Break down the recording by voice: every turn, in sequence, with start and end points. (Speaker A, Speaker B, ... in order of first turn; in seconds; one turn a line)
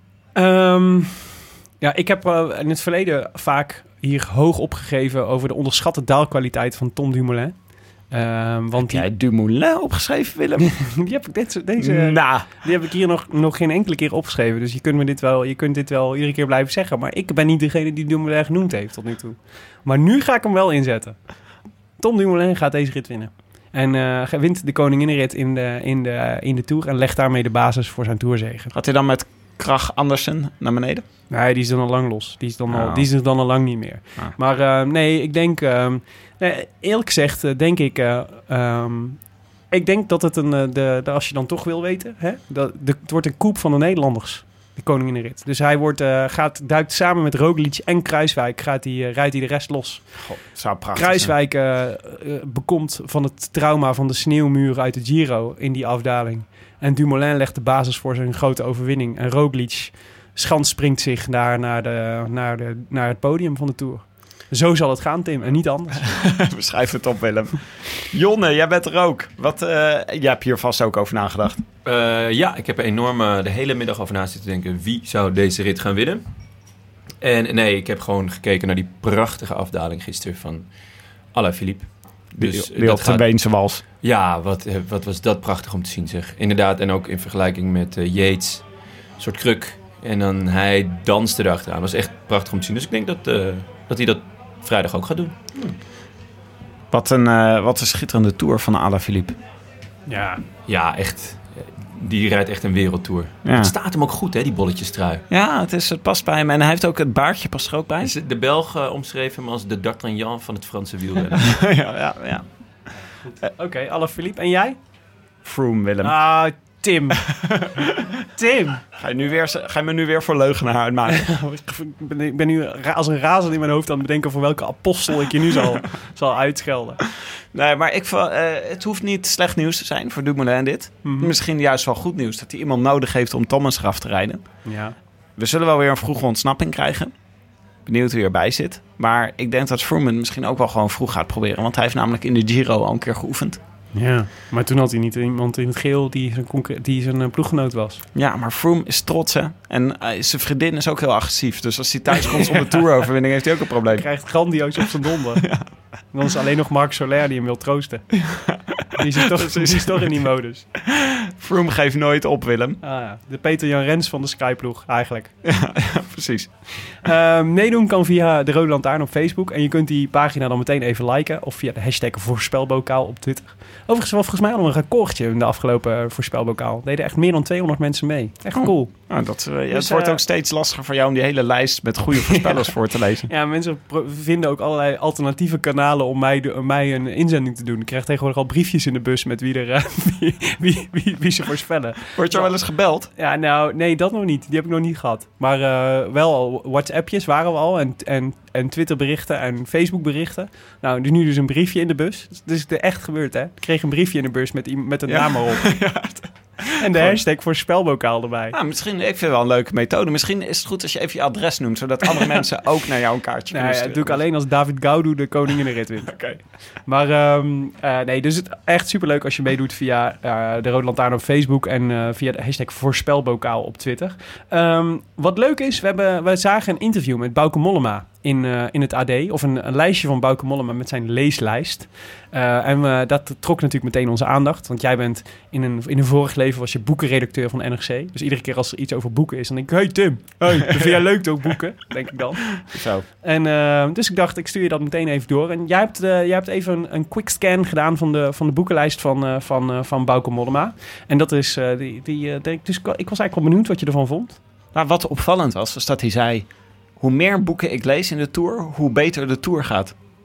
Speaker A: 0.4-7.5
Speaker A: 8.1-9.1
Speaker B: 8.8-10.8
Speaker A: 10.6-21.2
Speaker B: 11.8-12.5
Speaker A: 22.0-28.7
Speaker B: 28.7-31.0
Speaker A: 31.3-39.2
Speaker B: 32.7-33.1
Speaker A: 39.7-50.0
Speaker B: 50.1-51.3
Speaker A: 51.0-66.1
Speaker B: 66.0-71.6
Speaker C: 71.8-76.2
Speaker C: 77.2-80.7
Speaker C: 81.3-83.3
Speaker B: 82.4-83.8
Speaker C: 84.0-88.6
Speaker C: 89.2-95.7
Speaker B: 96.9-99.4
Speaker A: 100.1-100.4
Speaker C: 100.6-105.2
Speaker B: 103.4-103.7
Speaker B: 105.3-108.1
Speaker C: 108.0-111.5
Speaker B: 111.4-112.5
Speaker A: 113.2-114.8
Speaker B: 115.5-116.2
Speaker A: 116.0-117.2
Speaker B: 117.3-118.1
Speaker A: 118.3-118.8
Speaker B: 118.9-121.3
Speaker A: 121.1-127.0
Speaker B: 127.5-134.4
Speaker A: 131.0-131.3
Speaker A: 134.7-134.9
Speaker B: 135.4-137.1
Speaker B: 137.9-143.6
Speaker A: 143.9-148.0
Speaker B: 148.1-154.1
Speaker A: 153.9-155.6
Speaker A: 156.1-158.2
Speaker B: 158.2-160.1
Speaker A: 158.9-160.7
Speaker B: 160.8-162.8
Speaker A: 162.8-165.3
Speaker B: 165.4-166.5
Speaker A: 167.0-179.1
Speaker B: 178.6-183.3
Speaker A: 179.7-180.2
Speaker A: 182.3-182.7
Speaker A: 183.3-192.5
Speaker B: 192.1-193.1
Speaker A: 193.2-205.7
Speaker B: 205.1-207.2
Speaker A: 206.8-208.6
Speaker B: 208.5-214.3
Speaker A: 213.5-216.2
Speaker B: 216.0-216.4
Speaker A: 216.8-254.4
Speaker B: 240.6-241.0
Speaker B: 242.6-243.1
Speaker B: 254.7-256.5
Speaker B: 257.0-259.9